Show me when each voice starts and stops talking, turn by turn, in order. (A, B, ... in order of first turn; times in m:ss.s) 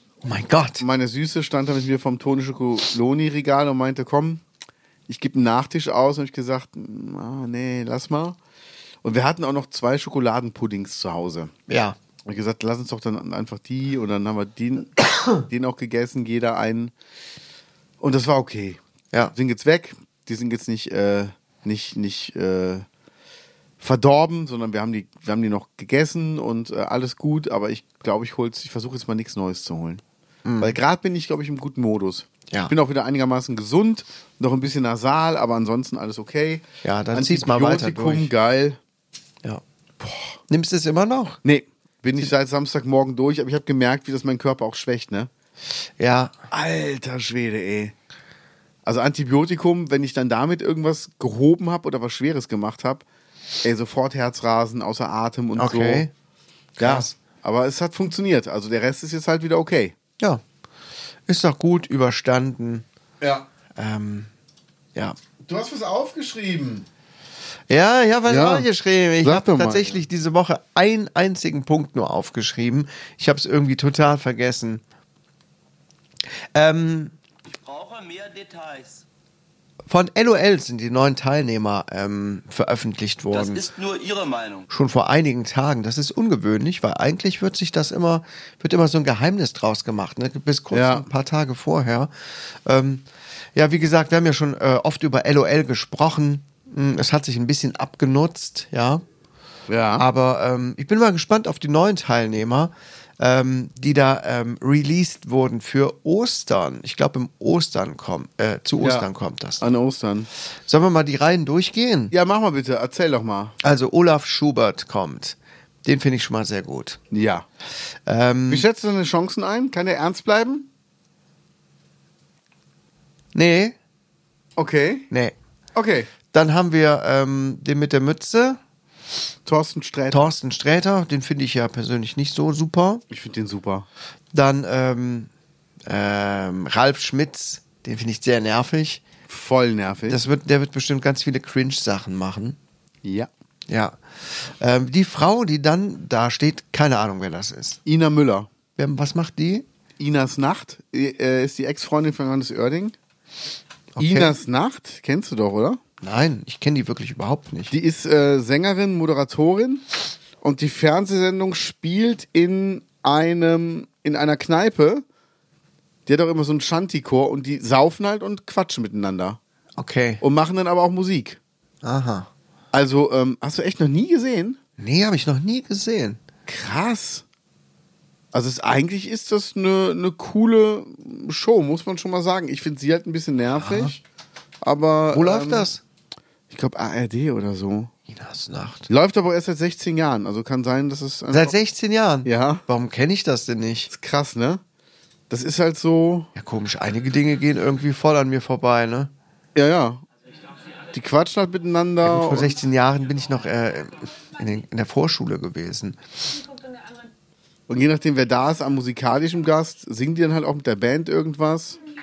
0:00.2-0:00.8 A
0:00.8-0:04.4 B
0:05.1-0:08.4 B
0:09.0-0:11.5 B
0:11.7-0:12.0 A
0:12.2-0:16.9 B
0:18.0-0:18.8 B
0:19.3-0:22.8 B
0:23.8-0:30.0 B
0:30.4-0:30.8 A
0:30.6-0:38.8 B
0:36.8-0:38.3 A
0:40.0-0:40.3 B
0:40.5-0:41.4 A
0:41.4-0:45.3 B
0:46.0-0:46.3 A
0:46.5-0:47.9 B
0:48.8-0:53.0 B
0:53.6-0:56.1 B
0:55.6-0:56.1 A
0:56.8-0:59.9 B
0:56.8-0:57.1 A
1:01.3-1:02.8 A
1:03.2-1:03.5 B
1:03.8-1:04.3 A
1:05.4-1:06.9 B
1:07.7-1:14.8 A
1:08.3-1:08.7 B
1:09.2-1:10.0 B
1:16.5-1:17.1 A
1:17.6-1:19.0 C
1:19.9-1:23.7 A
1:23.3-1:24.7 C
1:24.7-1:32.1 A
1:30.7-1:31.0 B
1:32.6-1:33.0 A
1:33.5-1:39.0 A
1:39.7-1:40.0 B
1:40.0-1:49.6 A
1:48.8-1:49.1 B
1:49.6-1:50.3 B
1:50.7-1:52.1 A
1:52.1-1:53.6 B
1:53.6-1:57.0 A
1:57.1-1:57.4 B
1:58.0-1:58.6 A
1:58.5-2:00.7 B
2:03.3-2:03.7 A
2:04.6-2:05.1 B
2:05.7-2:06.1 B
2:06.3-2:08.6 A
2:09.4-2:10.3 B
2:10.1-2:13.0 A
2:13.1-2:13.8 B
2:14.3-2:15.3 A
2:15.9-2:19.0 A
2:19.3-2:20.2 B
2:20.1-2:22.6 A
2:23.0-2:23.3 B
2:23.7-2:27.8 A
2:27.8-2:28.5 B
2:28.8-2:29.6 A
2:30.0-2:33.0 B
2:34.0-2:34.4 A
2:34.0-2:35.8 B
2:36.0-2:37.7 A
2:37.7-2:39.8 B
2:40.4-2:45.0 B
2:46.0-2:49.4 B
2:49.8-2:50.2 A
2:50.2-2:51.4 B
2:51.8-2:52.3 A
2:52.7-2:54.6 B
2:54.8-2:56.2 A
2:56.5-2:57.2 B
2:58.3-3:04.0 B
3:03.5-3:03.9 A
3:04.6-3:05.7 B
3:05.1-3:05.8 A
3:06.5-3:07.9 B
3:08.1-3:08.9 A
3:08.9-3:11.5 B
3:11.3-3:13.9 A
3:12.2-3:12.6 B
3:13.9-3:14.6 B
3:15.3-3:16.3 B
3:16.4-3:19.1 A
3:19.5-3:20.0 B
3:20.9-3:22.5 B
3:22.0-3:26.4 A
3:27.7-3:31.8 B